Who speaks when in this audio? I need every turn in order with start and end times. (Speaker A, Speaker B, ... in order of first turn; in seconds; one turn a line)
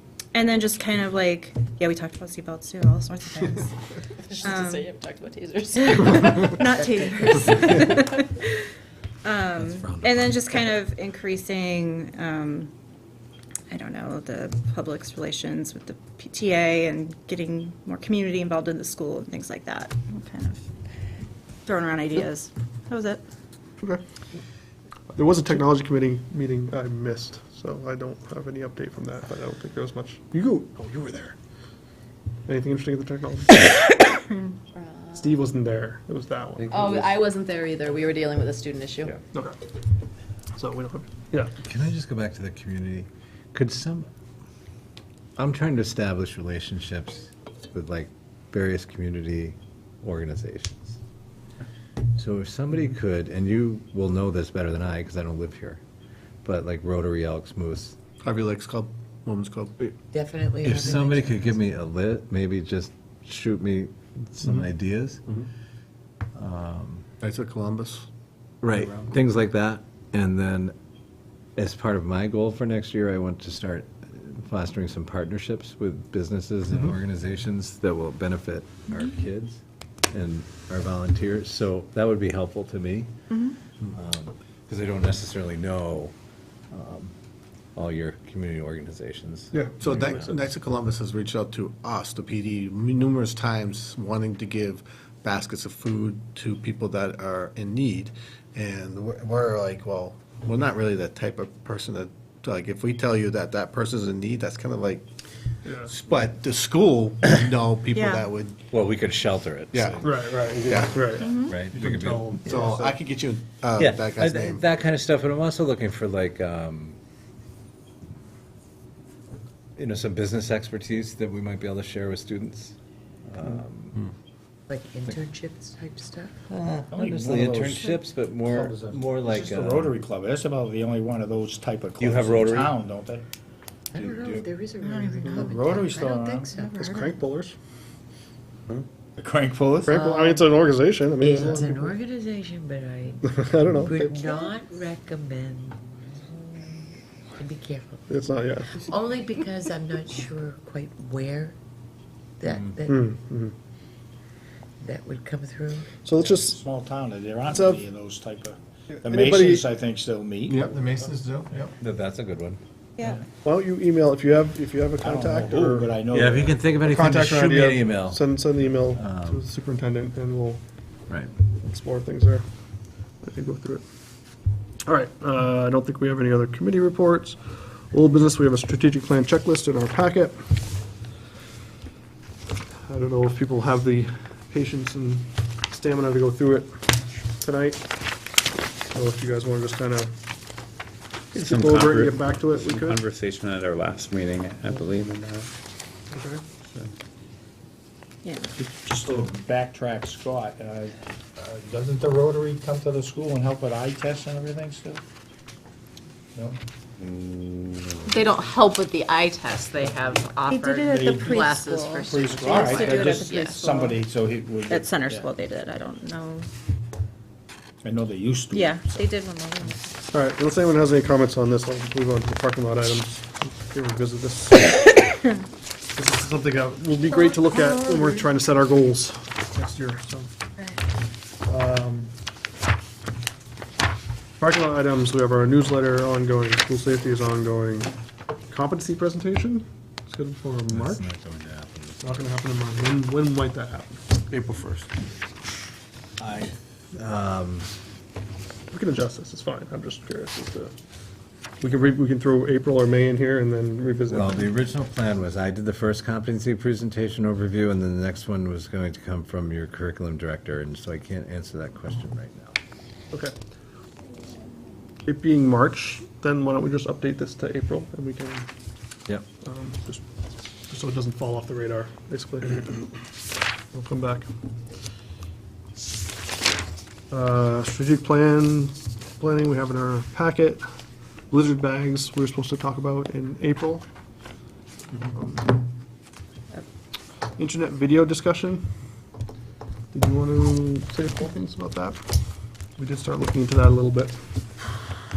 Speaker A: 0.3-3.8
Speaker B: 4.3-5.9
Speaker A: 4.3-4.9
Speaker A: 5.8-8.6
Speaker C: 6.5-7.8
Speaker A: 9.2-12.7
Speaker D: 9.6-10.7
Speaker A: 13.7-20.6
Speaker A: 21.6-23.2
Speaker E: 25.1-31.3
Speaker E: 32.5-33.5
Speaker B: 34.7-35.5
Speaker E: 35.1-36.8
Speaker F: 36.7-37.2
Speaker B: 36.7-39.1
Speaker E: 40.6-41.5
Speaker D: 41.6-44.1
Speaker D: 45.4-51.0
Speaker D: 52.1-55.8
Speaker D: 56.4-57.9
Speaker G: 58.2-59.7
Speaker C: 60.1-61.5
Speaker D: 60.6-65.2
Speaker D: 66.3-67.0
Speaker G: 67.2-68.0
Speaker D: 68.6-70.7
Speaker D: 71.5-83.1
Speaker A: 83.3-83.6
Speaker D: 83.9-86.1
Speaker D: 86.7-87.1
Speaker D: 87.7-90.3
Speaker E: 89.5-90.2
Speaker G: 89.8-105.0
Speaker E: 105.7-105.9
Speaker G: 105.8-108.6
Speaker A: 107.9-108.2
Speaker D: 108.7-110.2
Speaker G: 109.7-110.0
Speaker E: 110.0-112.8
Speaker G: 110.7-111.2
Speaker A: 111.1-111.5
Speaker D: 111.5-112.5
Speaker G: 112.4-114.6
Speaker H: 112.5-113.0
Speaker D: 113.8-117.0
Speaker D: 119.8-122.8
Speaker D: 123.3-124.0
Speaker C: 124.7-126.3
Speaker D: 126.5-129.9
Speaker H: 126.9-133.2
Speaker D: 132.0-132.7
Speaker C: 133.9-136.8
Speaker H: 134.0-134.4
Speaker A: 134.8-135.5
Speaker H: 135.2-136.5
Speaker A: 136.5-137.1
Speaker E: 136.7-137.5
Speaker H: 139.2-140.0
Speaker E: 139.8-141.9
Speaker C: 139.9-140.5
Speaker C: 141.2-145.8
Speaker E: 143.2-144.4
Speaker C: 147.4-148.0
Speaker E: 148.1-148.9
Speaker C: 148.7-151.5
Speaker C: 152.4-153.1
Speaker E: 152.8-153.5
Speaker C: 154.8-156.0
Speaker E: 156.0-156.6
Speaker H: 156.1-160.9
Speaker E: 157.5-157.8
Speaker E: 159.0-159.6
Speaker G: 160.5-161.7
Speaker D: 161.8-162.6
Speaker E: 163.4-166.0
Speaker H: 165.0-166.6
Speaker D: 166.1-169.4
Speaker E: 166.8-170.6
Speaker D: 171.1-171.3
Speaker E: 171.6-172.4
Speaker E: 173.2-173.8
Speaker E: 174.9-177.4
Speaker E: 177.9-180.5
Speaker E: 182.9-187.8
Speaker E: 188.9-190.1
Speaker E: 191.3-193.0
Speaker F: 191.4-195.5
Speaker E: 196.1-196.4
Speaker A: 198.2-198.5
Speaker H: 198.8-205.0
Speaker F: 207.0-208.4
Speaker B: 208.1-213.6
Speaker A: 210.5-214.0
Speaker H: 210.8-215.3
Speaker A: 214.7-216.5
Speaker H: 217.8-219.1
Speaker A: 218.5-219.9
Speaker E: 220.1-224.8
Speaker E: 225.9-230.3
Speaker A: 227.1-228.2
Speaker E: 231.4-232.1
Speaker E: 234.4-237.9
Speaker E: 238.5-241.0
Speaker D: 240.7-242.0
Speaker E: 242.0-244.6
Speaker D: 246.2-247.7
Speaker E: 248.7-250.7
Speaker E: 251.6-254.5
Speaker D: 254.1-262.6
Speaker E: 265.1-268.5
Speaker E: 269.4-270.0
Speaker E: 270.7-273.0
Speaker E: 273.7-274.3
Speaker E: 277.1-280.6
Speaker E: 281.3-283.9
Speaker E: 285.1-285.6
Speaker E: 287.4-288.6
Speaker E: 289.9-292.2
Speaker E: 292.8-294.6